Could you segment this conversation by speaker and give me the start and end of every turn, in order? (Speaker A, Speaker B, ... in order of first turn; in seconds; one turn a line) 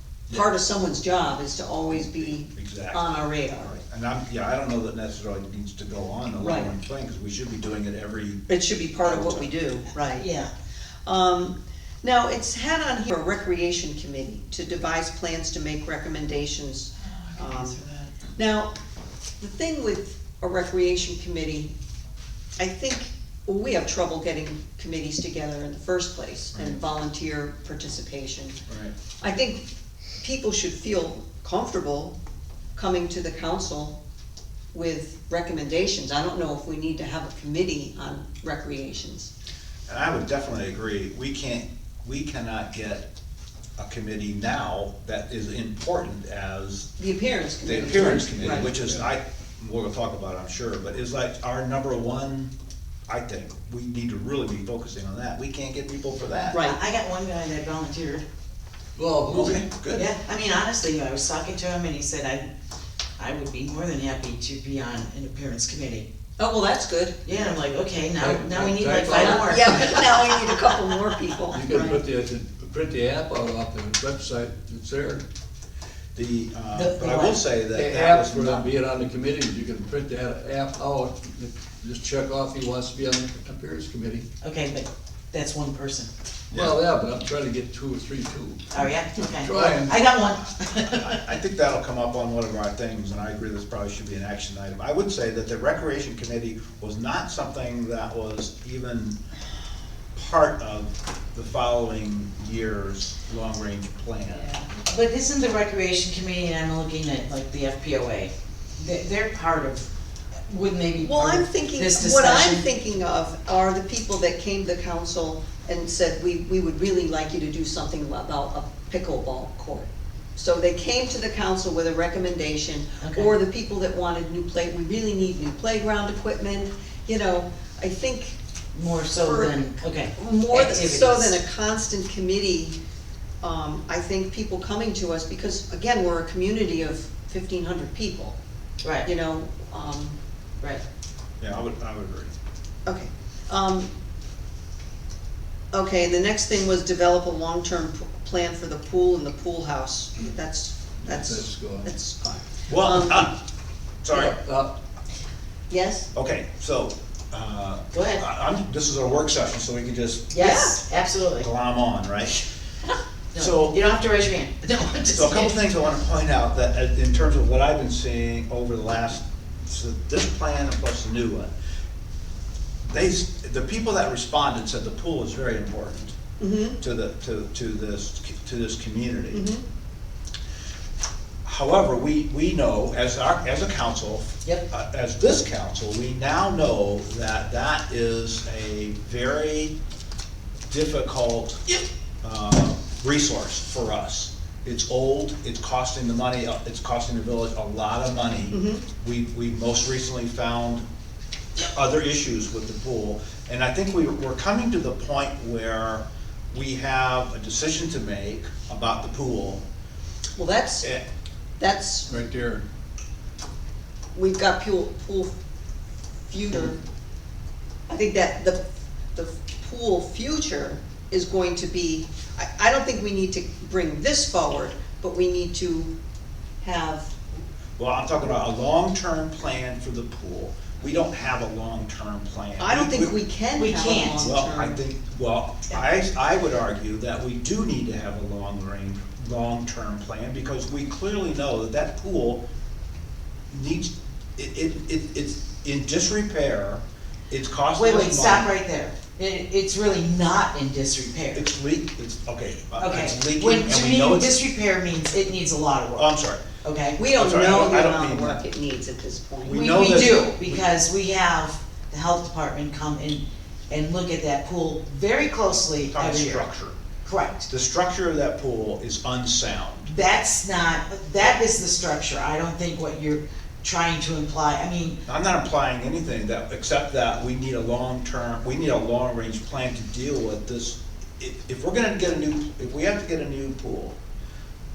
Speaker A: 0.3-3.7
Speaker B: 2.5-9.5
Speaker A: 6.4-6.7
Speaker A: 8.5-10.3
Speaker C: 10.1-10.5
Speaker A: 11.0-17.8
Speaker C: 17.1-18.1
Speaker A: 18.4-18.7
Speaker A: 19.4-21.7
Speaker A: 22.6-28.6
Speaker B: 26.5-26.8
Speaker B: 28.7-28.9
Speaker A: 29.2-29.6
Speaker A: 30.2-32.1
Speaker A: 32.8-34.0
Speaker A: 34.7-39.3
Speaker B: 39.9-43.1
Speaker B: 43.8-46.9
Speaker A: 47.0-48.7
Speaker B: 47.6-52.5
Speaker D: 48.3-49.0
Speaker B: 53.1-56.6
Speaker A: 56.5-56.8
Speaker C: 56.6-58.2
Speaker D: 59.0-59.6
Speaker B: 59.3-60.1
Speaker C: 59.9-62.5
Speaker C: 63.2-66.1
Speaker A: 66.4-67.2
Speaker C: 67.2-69.8
Speaker D: 68.2-70.0
Speaker A: 69.1-72.0
Speaker D: 71.5-75.2
Speaker B: 76.1-78.7
Speaker C: 76.7-77.4
Speaker D: 77.7-84.2
Speaker C: 84.4-86.1
Speaker B: 86.5-86.8
Speaker D: 86.5-89.9
Speaker C: 88.7-91.2
Speaker B: 90.8-99.2
Speaker B: 100.1-104.5
Speaker C: 104.7-109.9
Speaker C: 110.5-112.6
Speaker A: 111.0-128.4
Speaker C: 123.0-123.4
Speaker C: 128.7-131.4
Speaker A: 129.1-129.6
Speaker A: 130.1-132.8
Speaker A: 133.4-138.3
Speaker C: 138.8-139.1
Speaker A: 139.0-140.2
Speaker B: 141.4-142.3
Speaker A: 142.8-143.9
Speaker A: 145.7-153.3
Speaker D: 151.0-151.9
Speaker B: 152.7-153.3
Speaker B: 154.0-154.3
Speaker D: 154.1-154.7
Speaker A: 155.7-156.1
Speaker B: 156.1-160.3
Speaker C: 157.9-158.2
Speaker C: 160.3-161.5
Speaker A: 160.3-160.8
Speaker B: 161.4-162.4
Speaker C: 163.3-165.6
Speaker B: 163.3-163.7
Speaker B: 165.1-171.5
Speaker B: 172.8-176.1
Speaker A: 176.4-176.8
Speaker B: 176.8-179.4
Speaker A: 179.3-179.6
Speaker B: 181.4-189.7
Speaker B: 190.7-200.8
Speaker A: 198.5-198.8
Speaker B: 201.6-209.6
Speaker A: 210.3-210.8
Speaker A: 211.6-212.1
Speaker D: 212.1-212.6
Speaker A: 214.1-215.3
Speaker A: 216.3-216.8
Speaker A: 217.9-225.9
Speaker A: 226.6-227.1
Speaker B: 227.8-233.1
Speaker A: 232.6-234.8
Speaker C: 233.6-234.3
Speaker B: 234.2-242.4
Speaker B: 243.5-248.5
Speaker C: 247.7-251.4
Speaker B: 251.3-254.4
Speaker C: 252.8-257.0
Speaker B: 255.9-256.4
Speaker A: 256.9-260.0
Speaker B: 257.1-258.4
Speaker B: 259.4-260.7
Speaker C: 259.5-266.5
Speaker B: 265.9-266.8
Speaker C: 267.0-267.5
Speaker B: 267.5-269.9
Speaker C: 269.8-275.0
Speaker B: 275.1-283.9